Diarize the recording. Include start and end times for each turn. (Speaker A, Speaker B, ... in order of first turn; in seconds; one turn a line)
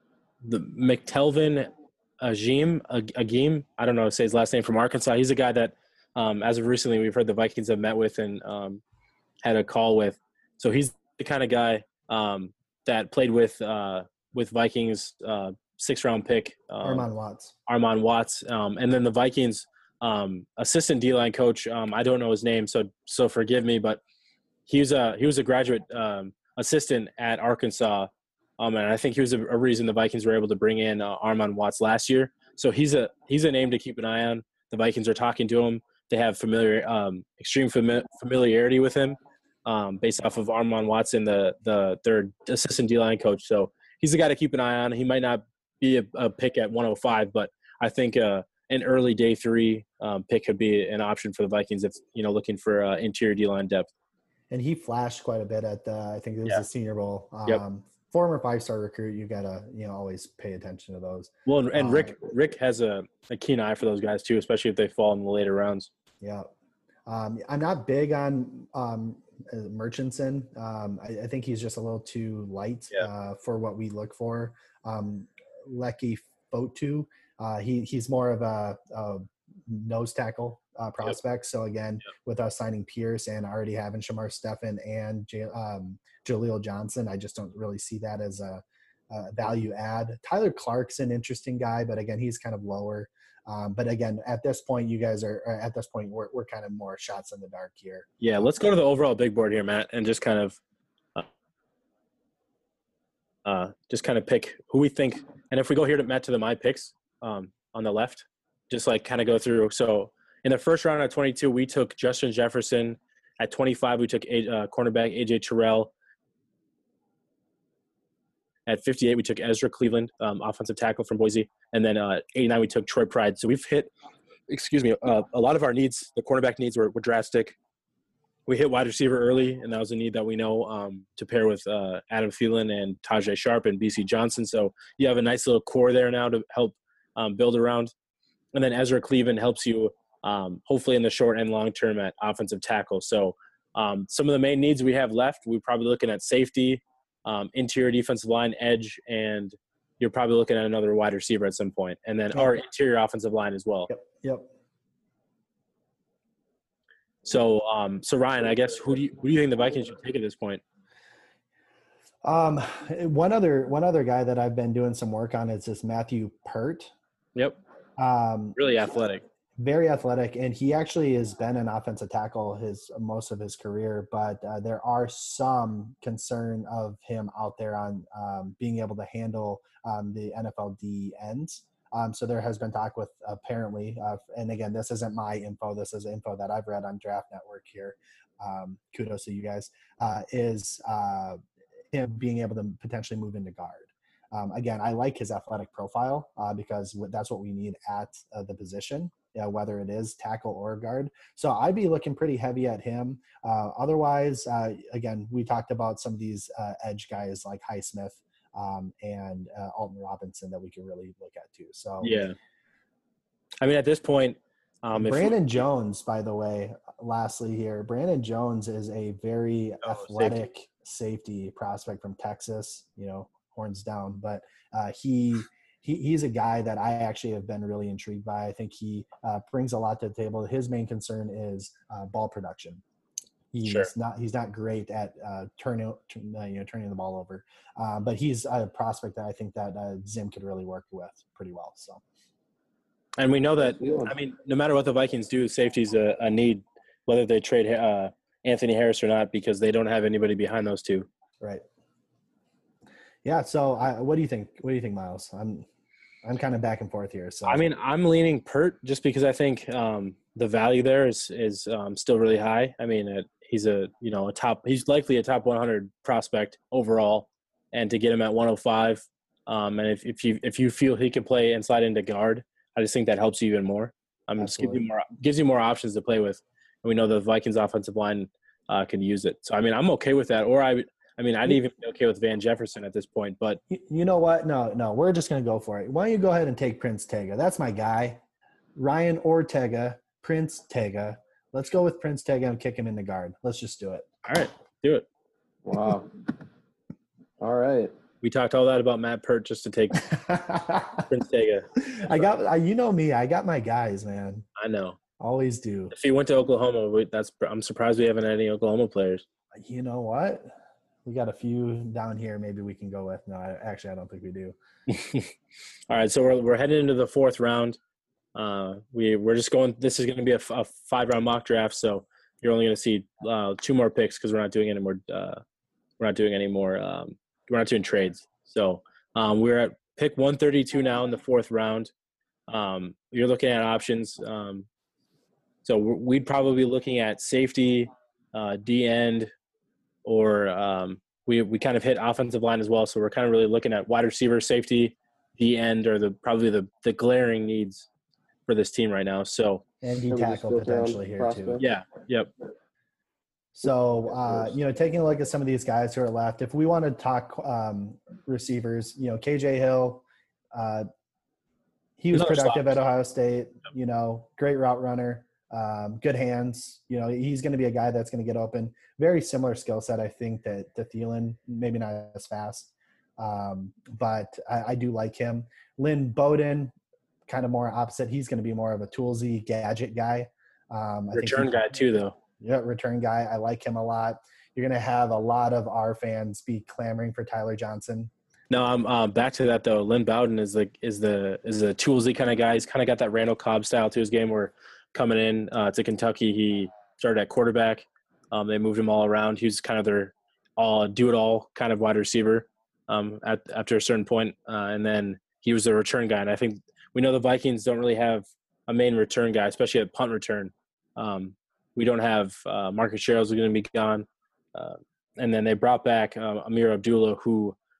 Speaker A: 0.4-8.8
Speaker A: 9.4-17.1
Speaker B: 16.8-17.6
Speaker A: 17.7-24.0
Speaker A: 24.7-53.9
Speaker B: 54.5-62.2
Speaker A: 61.5-65.9
Speaker B: 66.2-66.5
Speaker B: 67.1-98.5
Speaker A: 98.2-100.6
Speaker A: 103.5-115.9
Speaker A: 118.7-123.9
Speaker A: 124.5-127.6
Speaker A: 128.5-137.9
Speaker A: 138.5-153.9
Speaker B: 153.9-154.5
Speaker A: 157.2-160.6
Speaker B: 162.2-166.9
Speaker B: 168.0-168.6
Speaker A: 168.6-169.2
Speaker B: 169.6-191.4
Speaker B: 191.9-212.2
Speaker A: 212.0-212.4
Speaker A: 213.6-215.6
Speaker B: 215.0-232.8
Speaker A: 219.8-220.5
Speaker B: 233.5-242.0
Speaker A: 233.6-233.9
Speaker A: 243.2-251.1
Speaker C: 243.6-244.2
Speaker B: 253.2-255.7
Speaker B: 256.2-257.6
Speaker A: 257.4-283.6
Speaker B: 274.4-274.8
Speaker B: 283.7-288.2
Speaker B: 288.8-294.1
Speaker A: 294.2-295.1
Speaker C: 295.6-296.1
Speaker C: 297.4-297.9
Speaker A: 298.2-300.0
Speaker B: 300.0-301.1
Speaker A: 301.1-302.3
Speaker B: 301.8-304.4
Speaker A: 304.6-305.0
Speaker B: 305.2-305.9
Speaker A: 305.9-309.2
Speaker B: 309.5-310.5
Speaker B: 311.1-314.6
Speaker A: 314.9-315.3
Speaker A: 315.9-317.8
Speaker A: 318.4-325.4
Speaker A: 326.0-331.9
Speaker A: 332.5-334.7
Speaker A: 335.6-339.3
Speaker A: 340.1-347.9
Speaker A: 348.5-349.6
Speaker B: 349.8-351.6
Speaker C: 350.1-351.6
Speaker A: 351.6-352.3
Speaker B: 353.5-360.0
Speaker C: 353.7-354.6
Speaker B: 360.5-360.9
Speaker B: 362.0-376.7
Speaker A: 362.1-362.8
Speaker B: 377.3-381.6
Speaker A: 381.1-382.1
Speaker B: 382.4-388.1
Speaker A: 388.5-417.6